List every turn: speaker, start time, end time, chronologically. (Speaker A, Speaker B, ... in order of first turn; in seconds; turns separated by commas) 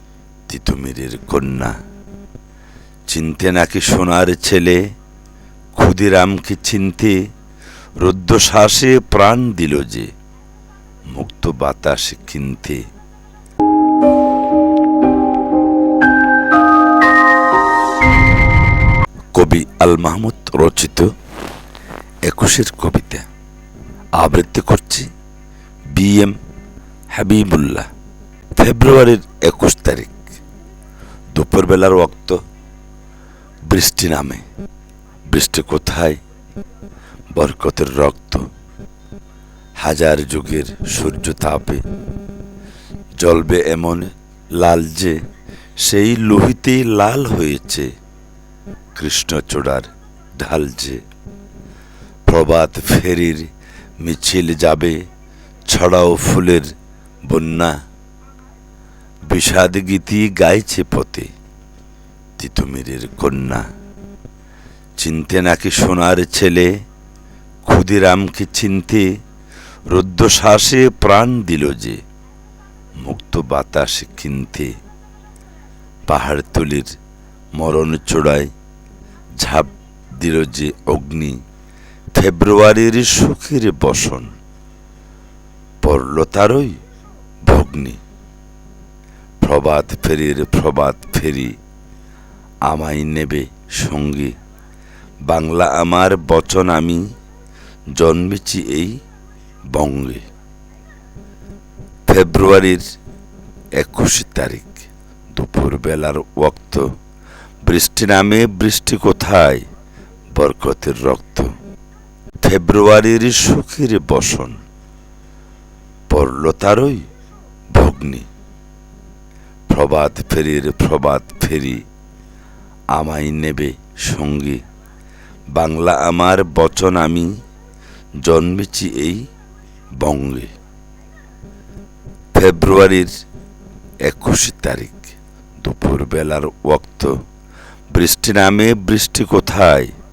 Speaker A: 0.5-1.8, Speaker A: 3.1-4.8, Speaker A: 5.8-7.2, Speaker A: 8.0-10.1, Speaker A: 11.1-12.8, Speaker A: 19.3-21.1, Speaker A: 22.2-23.2, Speaker A: 24.2-25.1, Speaker A: 25.9-26.4, Speaker A: 27.1-27.9, Speaker A: 28.6-30.2, Speaker A: 31.3-32.4, Speaker A: 33.7-34.4, Speaker A: 35.3-36.2, Speaker A: 37.3-38.4, Speaker A: 39.8-41.8, Speaker A: 43.2-45.2, Speaker A: 45.8-47.9, Speaker A: 49.0-51.0, Speaker A: 52.3-53.5, Speaker A: 54.0-55.0, Speaker A: 55.7-56.7, Speaker A: 57.2-57.8, Speaker A: 59.3-61.3, Speaker A: 62.4-63.6, Speaker A: 65.0-66.8, Speaker A: 67.6-69.1, Speaker A: 69.9-72.0, Speaker A: 73.0-74.7, Speaker A: 76.1-76.9, Speaker A: 77.5-78.5, Speaker A: 79.4-81.4, Speaker A: 82.1-84.3, Speaker A: 85.8-86.8, Speaker A: 87.4-88.0, Speaker A: 89.4-91.5, Speaker A: 92.7-94.3, Speaker A: 95.2-97.0, Speaker A: 97.9-99.0, Speaker A: 99.7-100.2, Speaker A: 102.1-102.8, Speaker A: 103.8-106.9, Speaker A: 107.6-109.6, Speaker A: 110.3-111.5, Speaker A: 112.4-114.6, Speaker A: 116.1-117.0, Speaker A: 117.7-118.3, Speaker A: 119.7-121.8, Speaker A: 122.9-124.6, Speaker A: 125.5-127.3, Speaker A: 128.2-129.3, Speaker A: 130.0-130.5, Speaker A: 132.3-133.1, Speaker A: 134.0-137.1, Speaker A: 137.9-139.9